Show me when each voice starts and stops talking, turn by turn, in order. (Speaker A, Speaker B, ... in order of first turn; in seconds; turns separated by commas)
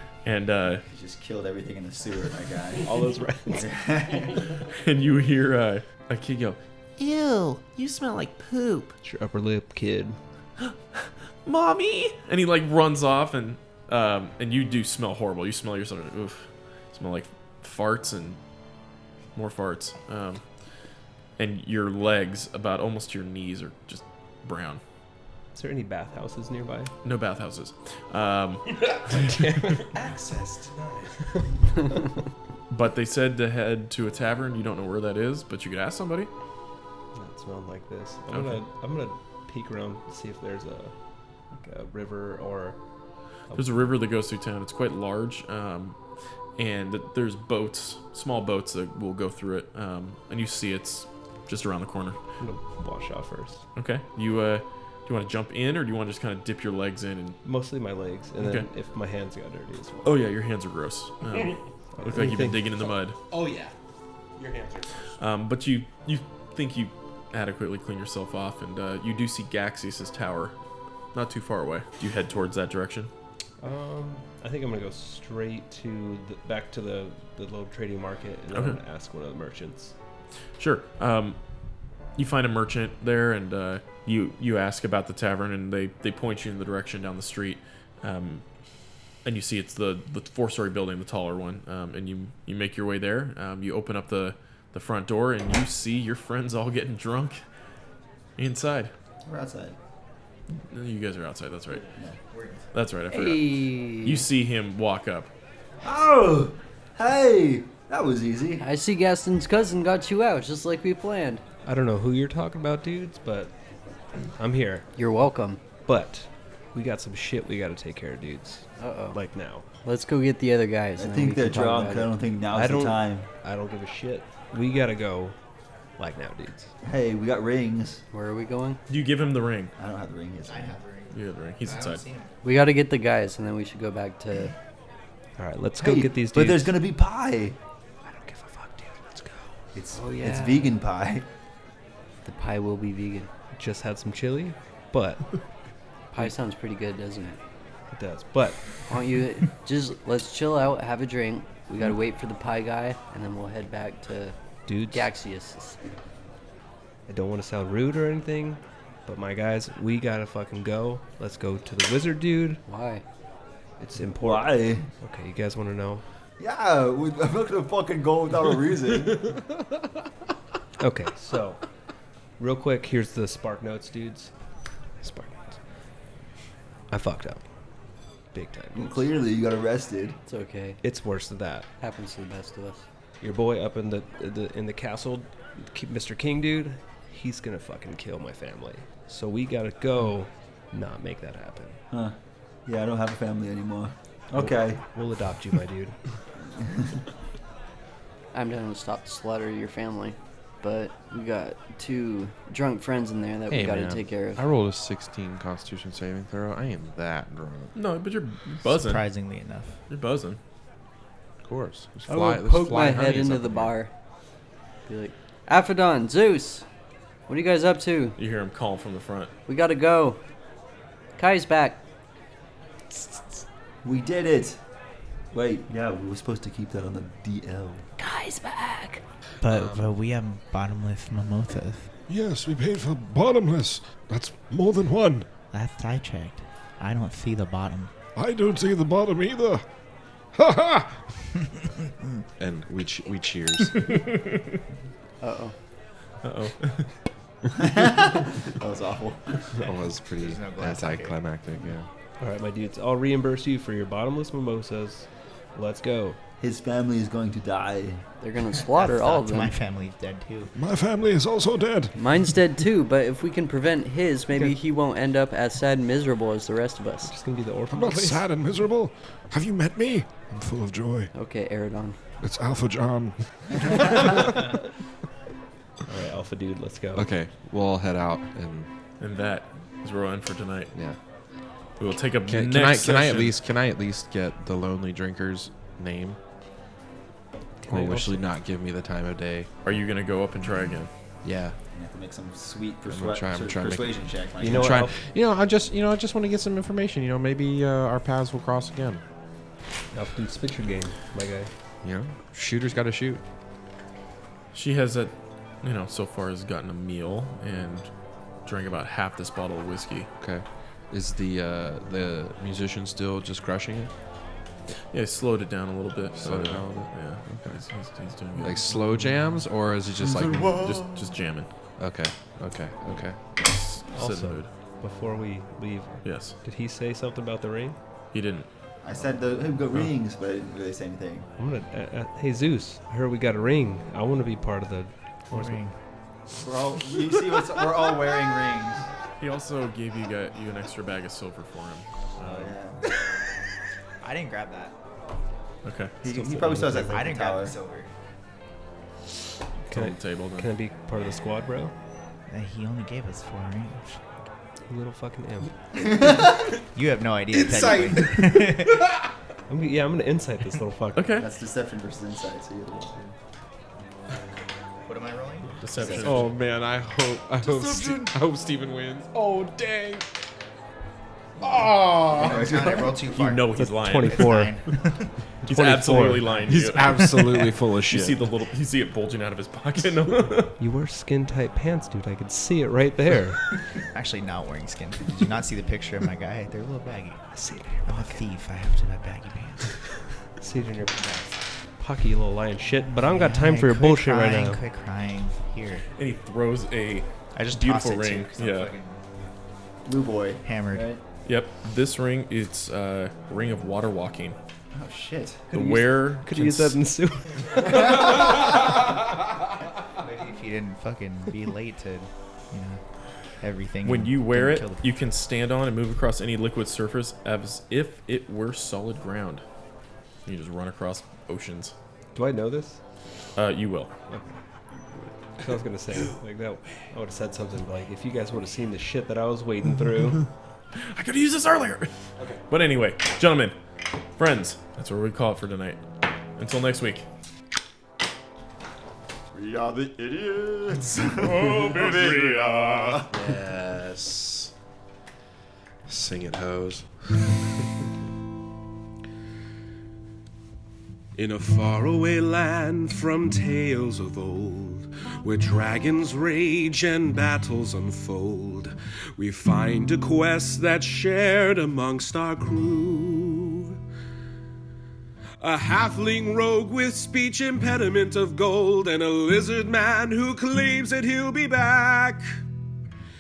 Speaker A: 0.2-0.8, Speaker B: 0.9-2.9, Speaker C: 2.8-3.8, Speaker B: 3.5-4.5, Speaker A: 4.7-8.9, Speaker C: 9.0-10.2, Speaker A: 10.6-18.4, Speaker A: 19.4-20.4, Speaker A: 21.4-24.8, Speaker C: 25.5-26.9, Speaker A: 27.0-29.8, Speaker C: 29.1-30.0, Speaker D: 29.8-31.1, Speaker C: 31.1-32.1, Speaker A: 32.7-36.3, Speaker C: 37.1-40.9, Speaker A: 38.3-38.6, Speaker C: 41.5-42.8, Speaker C: 43.5-43.9, Speaker A: 43.5-46.0, Speaker A: 46.6-52.2, Speaker C: 52.4-53.6, Speaker A: 53.8-57.4, Speaker C: 57.4-60.2, Speaker A: 58.4-58.7, Speaker A: 60.0-63.2, Speaker C: 62.0-62.9, Speaker D: 63.3-63.7, Speaker D: 64.4-64.9, Speaker A: 65.2-70.6, Speaker A: 71.1-73.1, Speaker C: 73.6-79.9, Speaker A: 78.5-78.8, Speaker A: 80.6-81.4, Speaker A: 82.2-88.5, Speaker A: 89.2-97.4, Speaker A: 98.4-98.9, Speaker B: 99.3-99.8, Speaker A: 100.7-101.9, Speaker B: 102.0-102.5, Speaker E: 102.3-102.6, Speaker A: 102.7-105.3, Speaker F: 103.1-104.3, Speaker G: 105.8-108.6, Speaker F: 108.6-111.4, Speaker C: 111.7-113.5, Speaker C: 114.4-114.9, Speaker F: 115.0-115.6, Speaker C: 115.8-119.7, Speaker F: 118.8-119.2, Speaker F: 119.8-122.1, Speaker G: 121.0-123.3, Speaker C: 122.5-125.4, Speaker C: 126.0-126.7, Speaker G: 126.8-128.0, Speaker F: 128.1-128.8, Speaker A: 128.9-129.7, Speaker G: 129.8-130.7, Speaker E: 130.5-132.3, Speaker A: 131.1-132.0, Speaker F: 132.4-134.6, Speaker C: 135.4-136.8, Speaker G: 135.8-137.6, Speaker C: 138.0-140.8, Speaker G: 139.8-141.3, Speaker F: 142.2-143.3, Speaker C: 143.6-145.3, Speaker F: 146.1-147.4, Speaker C: 147.9-148.8, Speaker F: 148.9-154.4, Speaker C: 154.7-155.1, Speaker F: 154.9-155.8, Speaker C: 157.1-162.6, Speaker F: 162.7-163.0, Speaker C: 163.8-166.1, Speaker G: 164.0-164.9, Speaker B: 166.4-166.8, Speaker G: 166.4-169.2, Speaker B: 168.3-169.0, Speaker C: 170.8-171.6, Speaker C: 172.4-174.3, Speaker C: 175.0-175.6, Speaker C: 176.9-177.4, Speaker C: 178.3-179.1, Speaker G: 178.8-180.2, Speaker F: 180.3-180.8, Speaker C: 180.8-181.7, Speaker F: 181.8-182.8, Speaker C: 183.2-191.8, Speaker G: 192.7-194.8, Speaker C: 194.3-196.0, Speaker F: 198.3-204.4, Speaker H: 203.5-207.8, Speaker A: 207.8-209.1, Speaker E: 208.6-209.8, Speaker A: 209.9-210.4, Speaker H: 211.4-213.7, Speaker F: 212.2-213.9, Speaker F: 214.9-216.7, Speaker F: 217.3-218.2, Speaker A: 218.2-219.3, Speaker F: 219.5-220.2, Speaker F: 221.2-221.8, Speaker G: 223.8-224.6, Speaker G: 225.3-227.9, Speaker F: 228.0-229.0, Speaker E: 229.4-231.9, Speaker H: 229.5-229.9, Speaker I: 232.1-235.3, Speaker E: 235.5-237.9, Speaker I: 238.2-239.7, Speaker I: 240.3-241.1, Speaker H: 242.4-244.0, Speaker F: 245.2-245.6, Speaker A: 246.2-246.9, Speaker B: 247.7-249.3, Speaker H: 249.5-251.9, Speaker E: 250.2-251.2, Speaker C: 252.2-256.2, Speaker G: 256.4-258.0, Speaker F: 258.2-259.5, Speaker E: 258.5-260.5, Speaker I: 260.6-262.4, Speaker F: 261.9-267.1, Speaker C: 267.0-268.2, Speaker I: 267.7-271.1, Speaker F: 271.1-272.0, Speaker I: 272.2-274.4, Speaker C: 275.9-277.1, Speaker H: 276.9-278.7, Speaker A: 279.0-280.7, Speaker A: 281.8-283.4, Speaker H: 282.2-286.2, Speaker C: 287.6-288.2, Speaker H: 287.7-289.5, Speaker A: 289.6-290.9, Speaker H: 291.2-291.6, Speaker B: 291.8-292.9, Speaker G: 292.6-294.9, Speaker H: 292.9-299.0, Speaker B: 294.0-294.7, Speaker C: 294.4-295.0, Speaker C: 299.9-301.5, Speaker H: 301.8-303.2, Speaker A: 304.5-307.9, Speaker A: 308.4-310.1, Speaker H: 310.2-313.9, Speaker A: 314.9-318.6, Speaker H: 316.2-317.6, Speaker H: 318.4-320.6, Speaker B: 320.0-321.1, Speaker A: 320.6-321.5, Speaker H: 321.8-323.2, Speaker A: 323.4-324.5, Speaker C: 323.9-327.8, Speaker A: 326.0-326.4, Speaker A: 328.1-328.5, Speaker B: 328.8-331.3, Speaker G: 329.4-330.1, Speaker C: 331.4-335.6, Speaker E: 335.3-335.8, Speaker B: 336.4-338.9, Speaker A: 339.2-342.4, Speaker B: 342.2-342.8, Speaker E: 344.0-344.8, Speaker A: 345.6-345.9, Speaker B: 346.0-347.6, Speaker C: 346.1-346.8, Speaker G: 346.2-346.8, Speaker E: 346.8-347.9, Speaker C: 349.7-351.7, Speaker A: 349.7-350.5, Speaker E: 352.3-354.0, Speaker C: 354.7-356.4, Speaker E: 356.5-358.9, Speaker D: 357.3-359.0, Speaker C: 359.5-361.2, Speaker A: 360.9-361.2, Speaker B: 361.2-363.1, Speaker G: 362.5-363.0, Speaker E: 364.8-366.0, Speaker A: 365.6-366.4, Speaker B: 365.8-366.3, Speaker H: 366.0-370.0, Speaker E: 372.0-375.2, Speaker B: 372.1-373.0, Speaker A: 373.1-374.4, Speaker C: 373.6-374.6, Speaker C: 375.4-376.4, Speaker A: 375.4-380.5, Speaker E: 376.2-376.6, Speaker H: 376.5-378.2, Speaker C: 380.6-383.5, Speaker E: 383.9-387.2, Speaker C: 387.3-388.2, Speaker E: 387.9-389.8, Speaker C: 390.4-394.6, Speaker E: 390.8-391.4, Speaker E: 392.8-395.9, Speaker A: 395.9-398.7, Speaker E: 397.3-399.0, Speaker B: 399.9-400.9, Speaker E: 400.4-400.9, Speaker A: 401.2-404.4, Speaker B: 404.7-405.4, Speaker C: 405.5-407.9, Speaker A: 405.5-406.8, Speaker E: 410.0-412.8, Speaker E: 413.4-414.9, Speaker A: 413.8-419.4, Speaker A: 420.2-421.8, Speaker C: 422.1-422.8, Speaker A: 423.4-423.9, Speaker C: 424.1-424.4, Speaker C: 425.4-430.3, Speaker A: 430.7-433.6, Speaker A: 434.2-435.8, Speaker A: 436.4-437.1, Speaker B: 439.3-441.7, Speaker D: 441.2-443.0, Speaker A: 441.3-442.7, Speaker B: 442.6-443.1, Speaker H: 443.1-444.5, Speaker H: 445.9-446.9, Speaker D: 451.1-463.8, Speaker D: 465.4-472.4